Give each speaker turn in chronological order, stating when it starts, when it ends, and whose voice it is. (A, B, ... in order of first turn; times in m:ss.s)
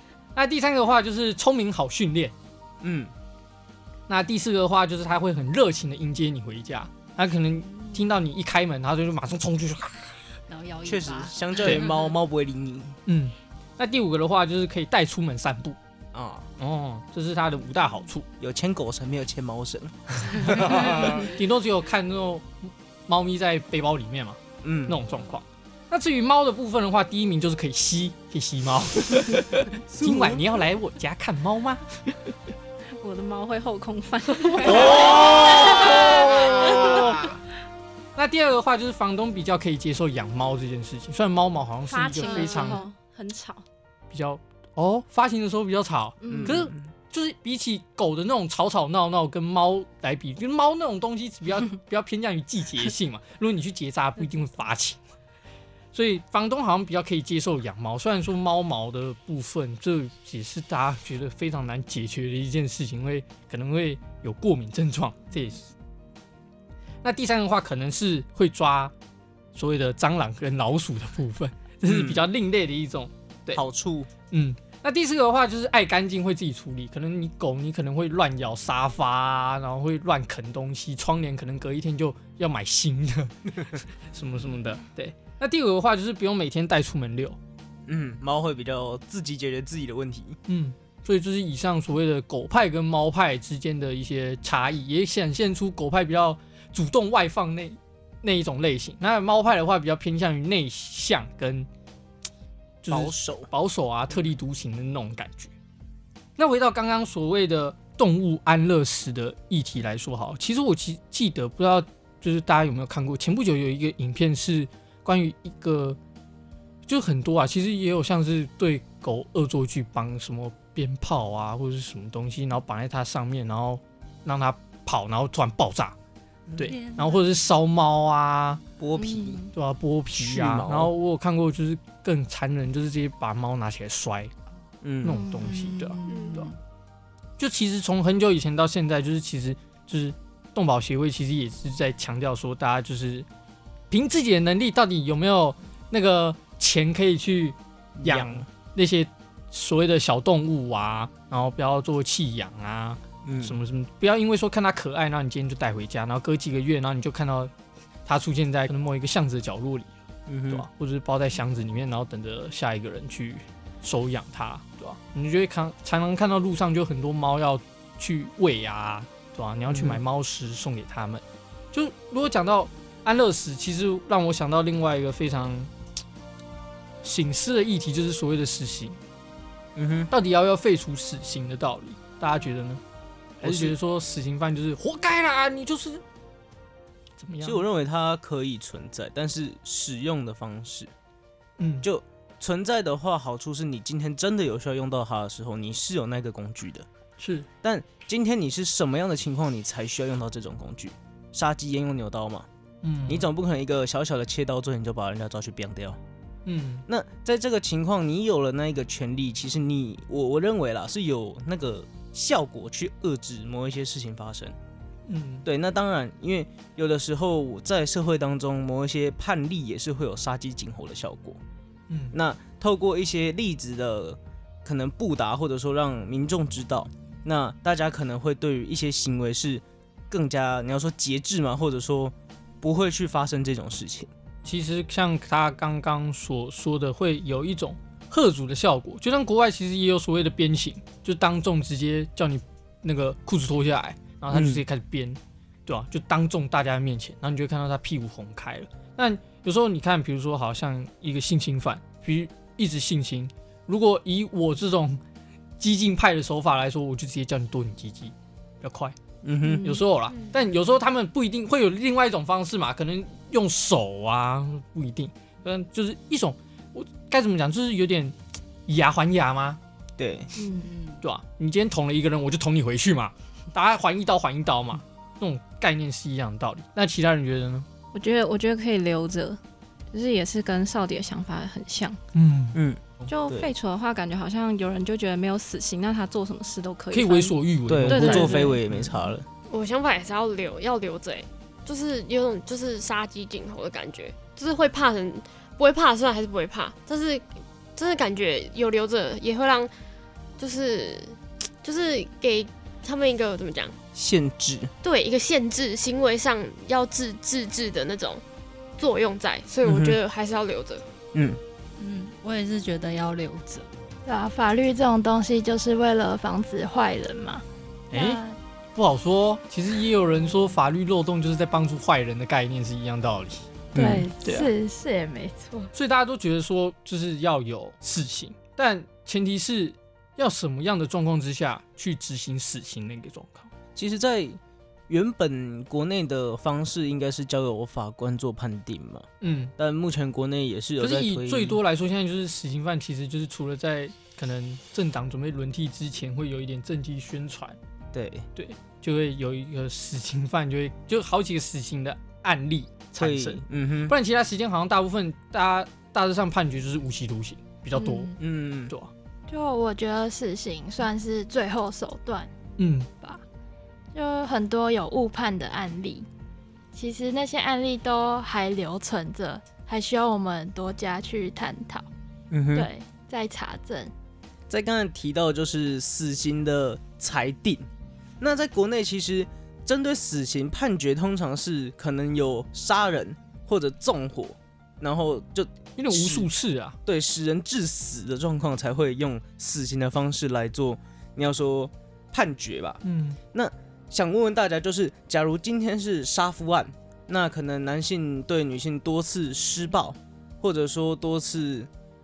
0:00.3-0:02.3 A
0:02.8-0:03.1 B
0:04.1-0:10.2 A
0:10.5-0:12.0 C
0:10.8-0:13.0 B
0:13.0-0:15.8 A
0:16.1-0:16.4 B
0:16.6-0:18.2 A
0:18.4-0:21.2 B
0:20.4-0:32.0 A
0:24.6-0:25.0 B
0:29.9-0:30.4 B
0:33.0-0:37.2 D
0:34.6-0:35.2 A
0:34.9-0:35.2 B
0:36.6-0:37.0 B
0:38.2-0:42.8 A
0:41.9-0:43.6 D
0:42.2-0:42.7 C
0:44.1-0:55.0 A
0:46.2-0:46.6 D
0:46.3-0:46.8 B
0:55.9-1:05.7 A
1:07.0-1:08.9 A
1:09.5-1:13.6 A
1:11.8-1:12.2 B
1:13.5-1:14.1 B
1:14.3-1:23.4 A
1:24.1-1:27.4 A
1:27.8-1:30.4 B
1:30.5-1:41.7 A
1:42.8-1:45.5 A
1:42.9-1:43.5 B
1:46.4-1:56.0 A
1:56.9-2:05.9 A
2:06.5-2:06.7 B
2:06.6-2:08.6 A
2:06.6-2:07.2 C
2:08.8-2:09.4 B
2:09.0-2:09.5 D
2:09.5-2:14.3 A
2:10.2-2:10.9 B
2:14.8-2:15.2 B
2:15.0-2:16.5 A
2:15.4-2:16.5 C
2:16.0-2:16.5 E
2:17.4-2:23.3 A
2:23.9-2:37.5 A
2:28.0-2:28.4 B
2:33.2-2:33.6 B
2:38.1-2:39.9 A
2:40.3-2:40.6 B
2:40.5-2:55.7 A
2:49.7-2:50.0 B
2:57.0-2:59.0 A
2:59.8-3:00.1 B
3:00.1-3:02.8 A
3:03.4-3:06.0 A
3:03.4-3:03.7 B
3:07.2-3:07.6 A
3:07.4-3:10.9 B
3:11.6-3:11.9 A
3:11.8-3:16.9 B
3:17.2-3:17.5 A
3:17.6-3:22.5 B
3:22.8-3:23.2 A
3:23.0-3:26.0 B
3:26.4-3:26.8 A
3:26.9-3:34.6 B
3:35.1-3:35.4 A
3:35.4-3:41.4 B
3:41.9-3:42.1 A
3:42.1-3:54.1 B
3:54.4-4:15.0 A
4:04.3-4:04.6 B
4:15.6-4:18.9 A
4:19.2-4:19.8 B
4:19.4-4:19.8 D
4:19.6-4:28.2 A
4:28.7-4:29.6 A
4:30.0-4:30.3 B
4:30.4-4:30.7 D
4:30.6-4:31.0 C
4:31.0-4:37.7 A
4:37.9-4:39.4 D
4:39.9-4:42.0 D
4:42.1-4:42.6 A
4:42.5-4:43.5 B
4:43.1-4:49.0 D
4:46.9-4:48.5 A
4:47.7-4:49.2 B
4:49.5-4:59.7 E
5:00.4-5:03.8 E
5:03.9-5:04.7 B
5:04.8-5:08.2 E
5:08.8-5:10.8 E
5:09.6-5:10.0 B
5:11.1-5:11.4 B
5:11.8-5:13.7 C
5:14.0-5:17.4 F
5:17.9-5:18.2 A
5:18.0-5:18.3 C
5:18.7-5:23.5 A
5:23.7-5:24.0 B
5:23.7-5:25.7 F
5:24.2-5:24.5 A
5:25.7-5:33.5 A
5:33.8-5:39.1 B
5:39.2-5:39.5 A
5:39.6-5:41.6 B
5:40.8-5:47.6 A
5:47.9-5:48.3 B
5:48.3-5:58.1 A
5:53.0-5:53.9 B
5:57.7-5:58.1 F
5:58.2-5:58.7 B
5:59.3-6:02.3 F
6:02.6-6:02.9 A
6:03.9-6:06.1 F
6:06.7-6:11.9 F
6:12.3-6:12.7 B
6:12.5-6:13.9 F
6:14.5-6:17.7 B
6:18.2-6:26.3 B
6:25.8-6:26.8 A
6:26.8-6:32.8 B
6:32.8-6:33.2 A
6:33.3-6:41.7 B